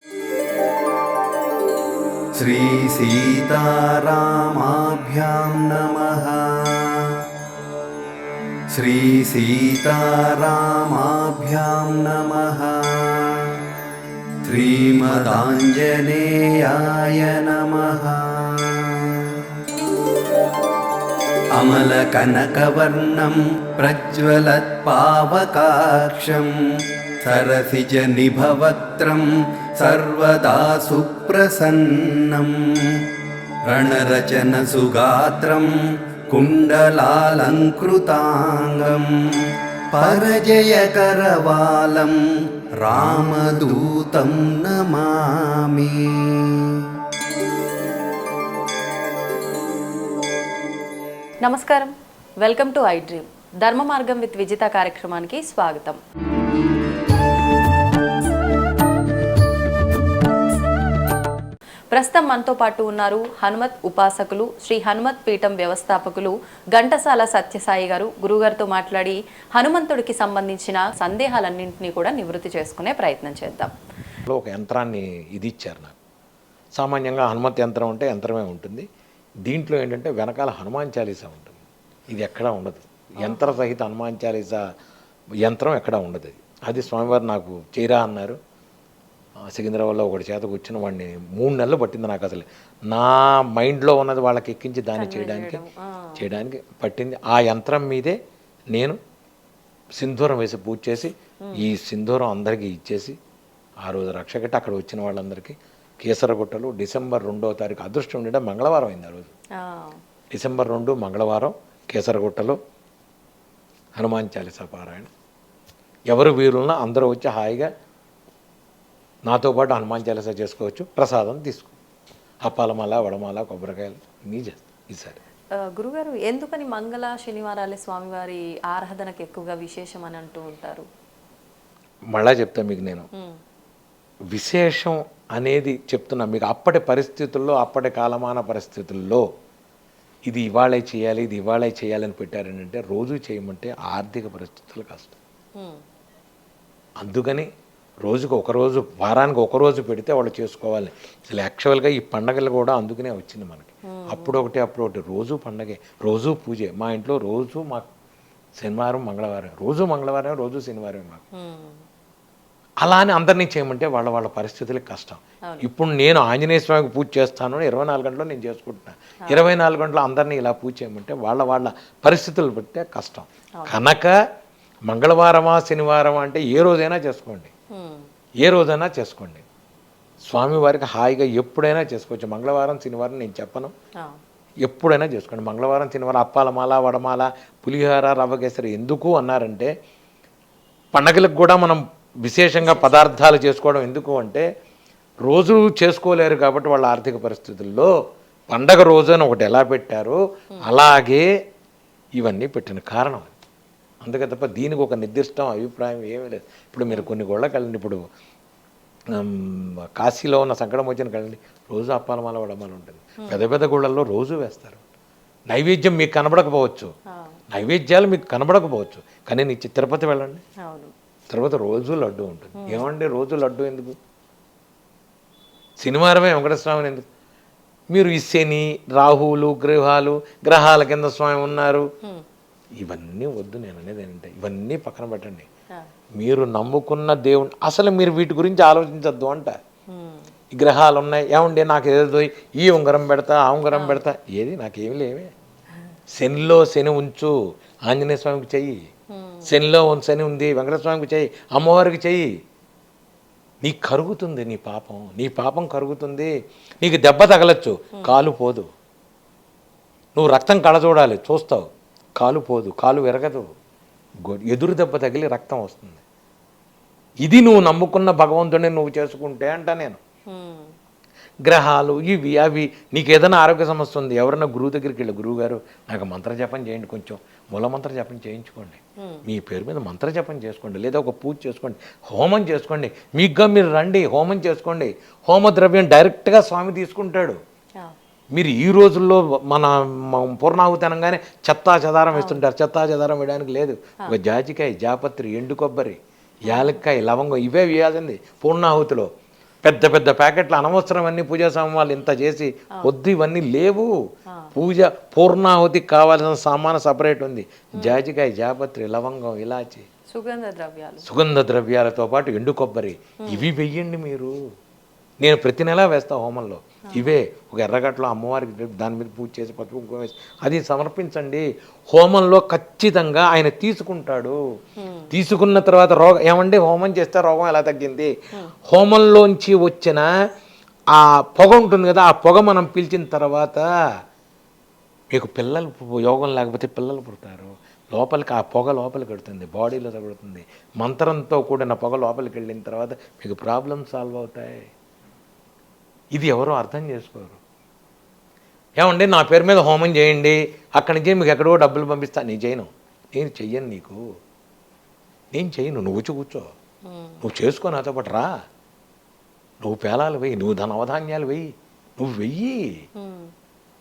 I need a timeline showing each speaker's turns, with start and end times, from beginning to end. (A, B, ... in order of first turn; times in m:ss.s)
0:02.4-0:07.2 A
0:08.7-0:13.6 A
0:14.4-0:19.4 A
0:21.6-0:26.5 A
0:27.2-0:29.3 A
0:29.8-0:33.1 A
0:33.7-0:35.7 A
0:36.3-0:42.2 A
0:42.8-0:46.8 A
0:51.4-0:56.0 B
1:01.9-1:13.7 B
1:14.3-1:16.0 C
1:16.8-1:18.9 C
1:19.5-1:24.7 C
1:23.2-1:23.6 B
1:25.4-1:28.4 C
1:29.5-1:35.6 C
1:34.9-1:36.3 B
1:36.2-1:38.2 C
1:38.7-1:39.0 C
1:40.0-1:43.2 C
1:43.8-1:49.3 C
1:49.6-1:50.0 B
1:50.3-1:52.6 C
1:54.0-1:55.1 C
1:56.1-1:57.7 C
1:59.3-2:01.8 C
2:02.4-2:05.2 C
2:05.6-2:10.9 B
2:12.1-2:13.1 C
2:14.3-2:19.2 C
2:20.3-2:25.2 C
2:27.0-2:27.5 C
2:28.0-2:37.9 C
2:33.8-2:34.4 B
2:38.6-2:41.2 C
2:41.3-2:41.8 B
2:42.8-2:54.2 C
2:54.9-2:57.5 C
2:57.7-2:58.1 B
2:58.4-2:59.4 C
3:00.3-3:03.7 C
3:04.6-3:09.7 C
3:10.9-3:14.5 C
3:12.6-3:13.1 B
3:15.2-3:17.9 C
3:18.5-3:21.3 C
3:22.2-3:23.3 C
3:24.0-3:28.0 C
3:29.1-3:34.8 C
3:35.5-3:36.9 C
3:37.1-3:37.4 B
3:37.5-3:40.4 C
3:40.6-3:40.9 B
3:41.3-3:44.0 C
3:42.6-3:42.9 B
3:45.8-3:47.0 C
3:47.9-3:51.9 C
3:52.8-3:55.5 C
3:56.2-3:59.6 C
3:59.9-4:00.3 B
4:00.5-4:05.3 C
4:03.7-4:04.0 B
4:06.1-4:07.3 C
4:07.9-4:08.9 C
4:09.1-4:09.6 B
4:09.5-4:12.3 C
4:13.6-4:18.7 C
4:20.2-4:21.7 C
4:22.2-4:23.5 C
4:24.3-4:26.0 C
4:27.2-4:30.0 C
4:30.3-4:30.7 B
4:31.5-4:47.4 C
4:39.0-4:39.2 B
4:48.3-4:59.1 C
4:52.1-4:52.4 B
4:56.5-4:56.8 B
4:59.6-5:03.9 C
5:04.6-5:09.9 C
5:10.1-5:11.1 B
5:11.0-5:14.4 C
5:13.2-5:13.5 B
5:15.2-5:24.4 C
5:24.8-5:25.1 B
5:25.1-5:28.1 C
5:28.7-5:30.1 C
5:30.9-5:33.7 C
5:35.1-5:44.7 C
5:46.1-5:47.4 C
5:48.8-5:54.0 C
5:55.3-5:56.5 C
5:56.9-5:57.2 B
5:57.2-5:58.3 C
5:59.6-6:02.8 C
6:03.0-6:03.3 B